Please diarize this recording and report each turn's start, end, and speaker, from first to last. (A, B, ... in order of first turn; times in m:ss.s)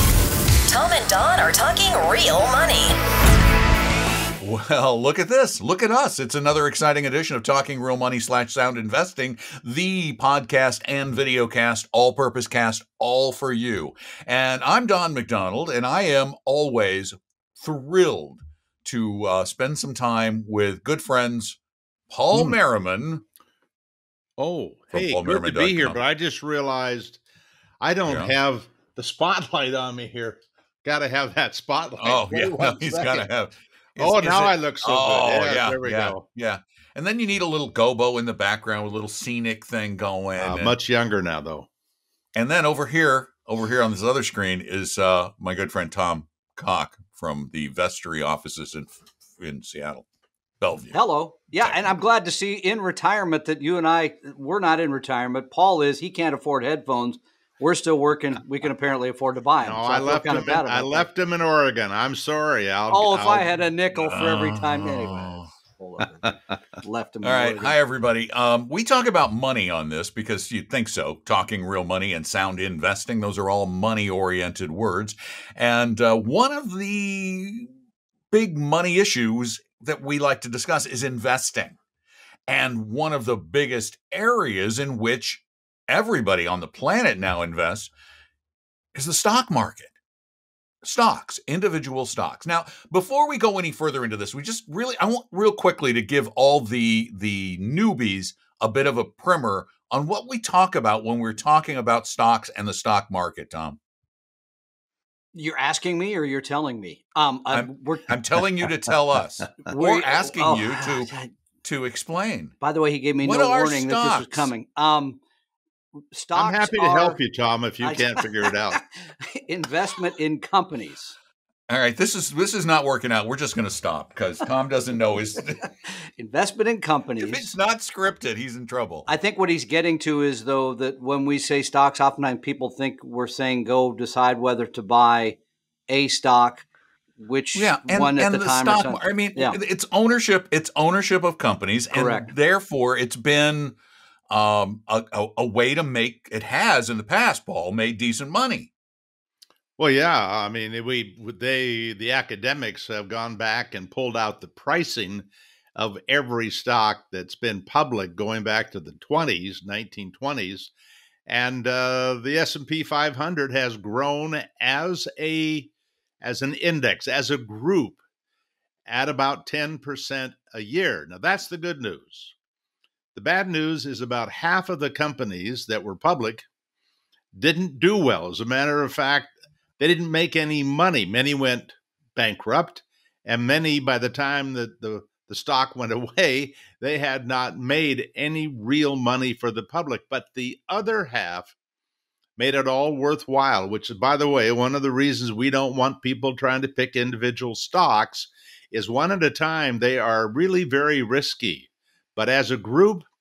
0:00.7-0:03.0 A
0:04.4-0:21.6 B
0:22.1-0:23.2 B
0:22.3-0:22.6 C
0:24.4-0:27.2 C
0:24.9-0:26.0 B
0:27.8-0:33.3 C
0:28.1-0:28.3 B
0:32.0-0:40.8 B
0:34.0-0:36.2 C
0:40.4-0:41.7 C
0:42.4-0:50.1 B
0:50.6-0:51.0 B
0:50.9-1:01.1 D
0:51.6-0:51.9 B
0:59.6-1:03.6 C
1:02.9-1:07.8 D
1:03.9-1:05.5 B
1:07.2-1:17.7 B
1:18.3-1:21.8 B
1:22.5-1:27.9 B
1:29.0-1:29.9 B
1:30.8-1:43.8 B
1:45.3-1:48.1 D
1:47.5-1:52.6 B
1:49.7-1:51.3 D
1:52.6-1:55.2 D
1:53.2-1:54.5 B
1:56.1-1:57.2 D
1:56.3-1:58.8 C
1:57.8-2:01.2 D
2:01.7-2:05.6 B
2:06.2-2:07.5 D
2:07.2-2:09.1 B
2:09.1-2:15.4 D
2:15.9-2:16.7 D
2:17.2-2:19.6 D
2:17.6-2:23.8 B
2:21.9-2:22.3 D
2:24.3-2:28.7 B
2:29.8-2:40.7 C
2:41.3-2:48.0 C
2:48.9-2:52.3 C
2:53.2-2:56.5 C
2:57.4-3:11.5 C
3:12.4-3:23.1 C